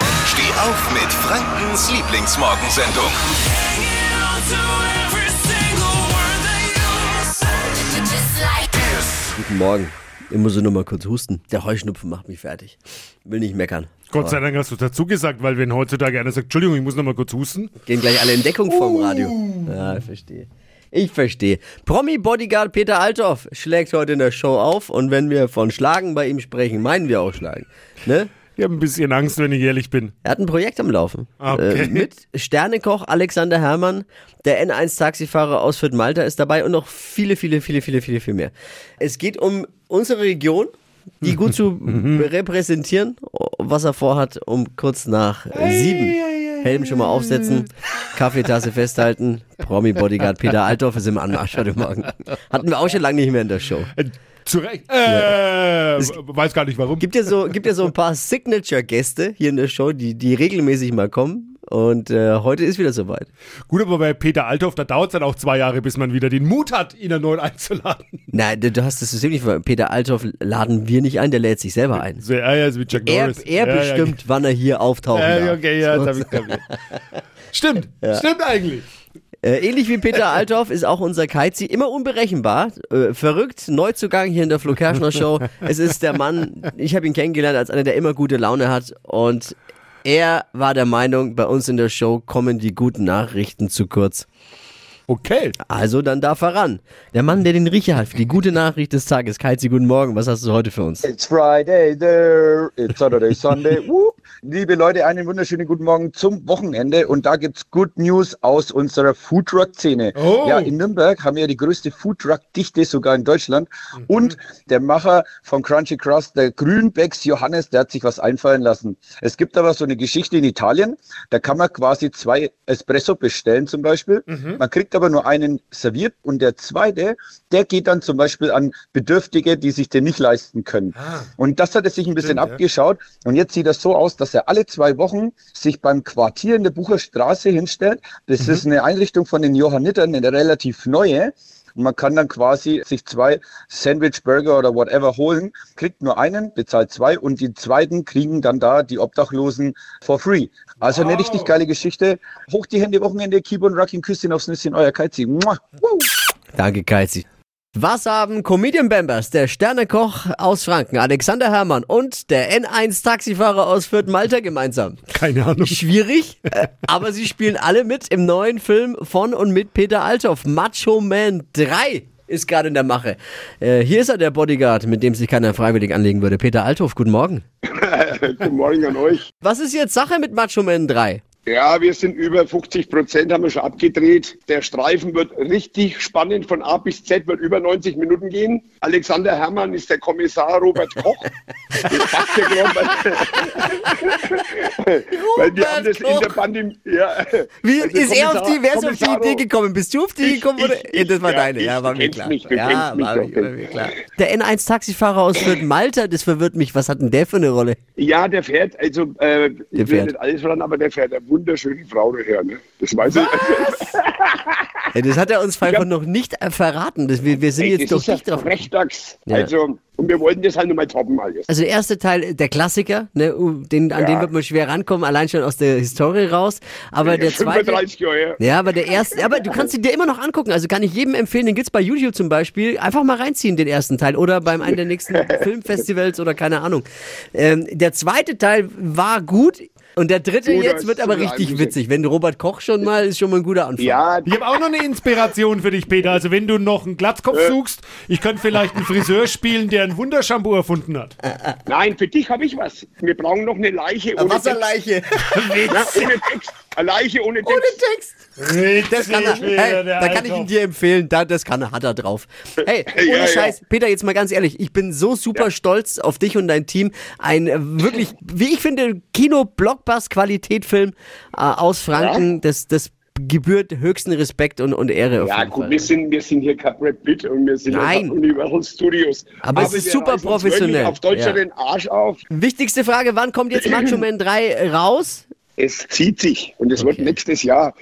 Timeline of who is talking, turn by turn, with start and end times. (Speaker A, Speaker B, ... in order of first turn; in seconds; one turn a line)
Speaker A: 0.2-3.2
Speaker B: 5.0-6.1
Speaker C: 9.3-14.4
Speaker B: 14.1-17.7
Speaker C: 17.8-28.3
Speaker B: 18.7-19.7
Speaker B: 28.5-30.1
Speaker C: 30.2-53.9
Speaker B: 31.4-32.1
Speaker B: 45.6-47.6
Speaker B: 53.9-57.1
Speaker C: 55.0-55.4
Speaker C: 57.0-63.3
Speaker B: 63.7-68.3
Speaker C: 68.3-72.2
Speaker B: 72.1-74.2
Speaker C: 72.9-76.5
Speaker B: 75.1-76.6
Speaker B: 77.5-78.8
Speaker C: 79.4-94.3
Speaker B: 95.1-95.5
Speaker C: 95.7-101.0
Speaker D: 101.0-155.8
Speaker B: 110.1-110.7
Speaker B: 114.0-114.4
Speaker B: 124.3-124.6
Speaker B: 131.0-131.3
Speaker B: 132.2-132.6
Speaker B: 150.9-151.5
Speaker C: 156.5-165.0
Speaker B: 165.1-165.8
Speaker C: 165.6-177.4
Speaker E: 177.7-179.2
Speaker C: 179.4-181.2
Speaker E: 181.5-199.4
Speaker C: 192.6-194.1
Speaker C: 195.1-196.3
Speaker C: 197.6-207.8
Speaker E: 200.2-203.5
Speaker E: 208.0-214.8
Speaker C: 209.7-210.1
Speaker C: 213.2-213.8
Speaker C: 214.9-218.5
Speaker E: 217.4-221.5
Speaker C: 221.5-227.8
Speaker E: 223.9-224.3
Speaker E: 227.0-229.6
Speaker C: 228.4-244.0
Speaker E: 240.4-241.8
Speaker E: 243.8-244.3
Speaker B: 244.2-251.1
Speaker E: 247.3-247.6
Speaker E: 251.7-254.6
Speaker C: 254.2-255.7
Speaker B: 255.3-256.1
Speaker E: 255.7-257.8
Speaker C: 257.4-258.2
Speaker B: 258.4-260.5
Speaker C: 258.8-275.9
Speaker E: 262.9-263.5
Speaker E: 271.9-272.2
Speaker E: 275.2-282.2
Speaker C: 277.7-278.2
Speaker C: 279.4-281.4
Speaker C: 282.3-285.3
Speaker E: 285.6-287.7
Speaker C: 286.8-287.1